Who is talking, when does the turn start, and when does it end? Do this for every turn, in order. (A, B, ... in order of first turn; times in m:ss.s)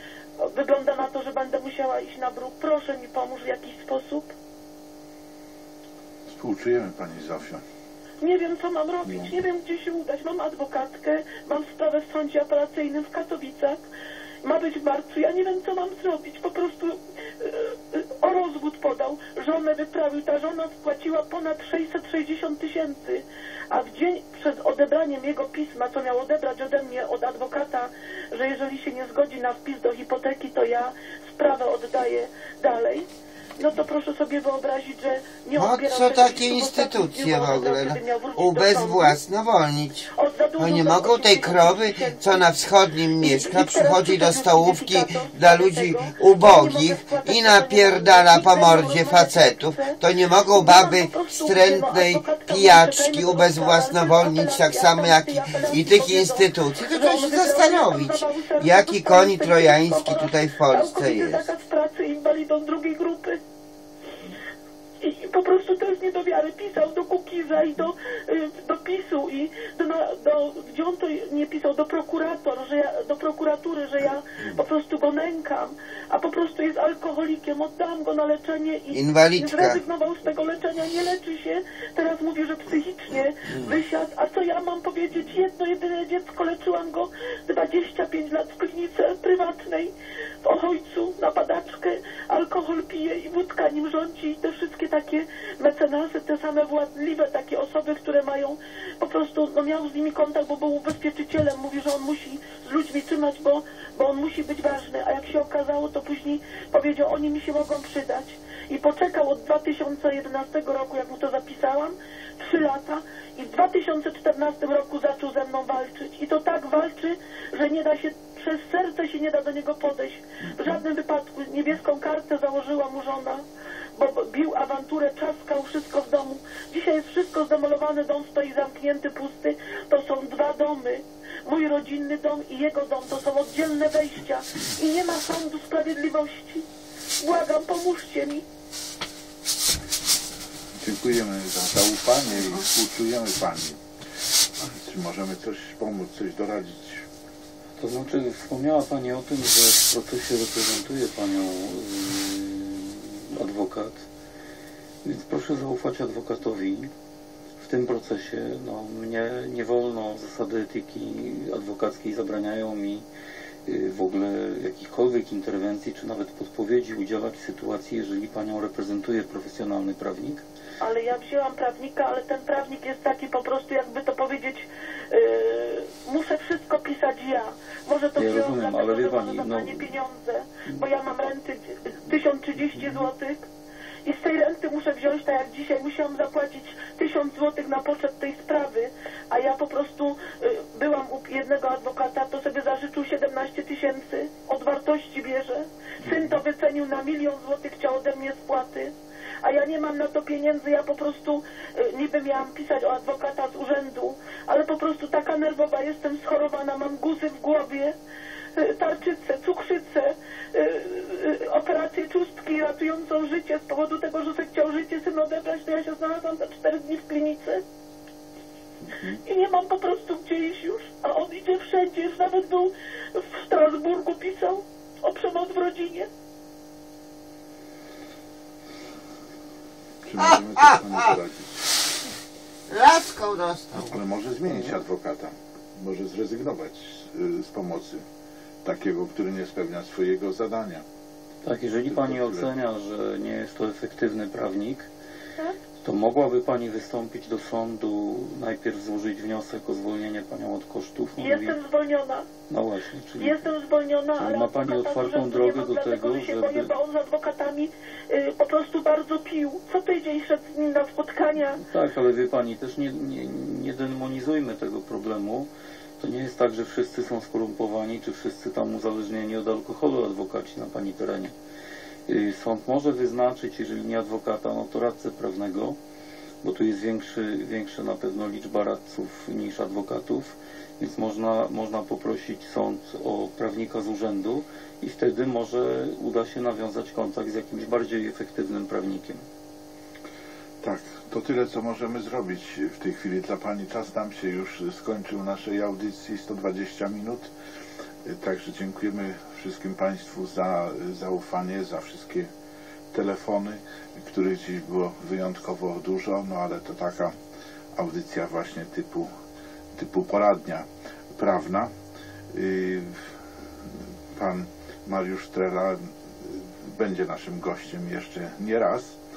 0:00.4-0:04.3 A
0:06.3-0:07.6 B
0:08.2-0:13.8 A
0:09.0-0:09.3 B
0:14.4-0:33.0 A
0:33.6-0:39.2 A
0:35.5-1:01.5 C
0:40.2-0:42.4 A
0:43.2-0:50.0 A
0:50.5-1:03.4 A
1:05.0-1:29.9 A
1:18.9-1:19.8 C
1:23.5-1:23.8 C
1:30.4-2:03.4 A
2:00.4-2:00.8 B
2:04.0-2:16.6 A
2:17.2-2:18.4 A
2:20.8-2:23.8 B
2:24.6-2:27.0 B
2:27.8-2:34.0 D
2:35.0-2:36.9 D
2:37.6-2:43.0 D
2:43.6-2:50.4 D
2:50.8-3:03.4 A
2:58.2-2:59.9 D
3:02.8-3:03.0 D
3:04.0-3:27.9 A
3:28.6-3:37.6 A
3:38.8-3:39.2 B
3:39.2-3:46.1 A
3:50.0-3:51.6 B
3:50.2-3:51.2 C
3:52.7-3:54.0 C
3:53.7-3:58.0 B
3:58.6-4:00.8 B
4:01.4-4:04.9 D
4:01.8-4:02.5 B
4:05.8-4:11.6 D
4:11.2-4:12.3 A
4:12.5-4:13.5 D
4:13.2-4:21.6 A
4:14.2-4:16.7 D
4:21.5-4:31.3 D
4:32.1-4:35.8 D
4:36.4-4:49.2 D
4:50.6-4:57.3 B
4:58.0-5:02.3 B
5:02.9-5:07.2 B
5:07.7-5:09.1 B
5:09.7-5:11.7 B
5:12.3-5:13.1 B
5:14.1-5:19.0 B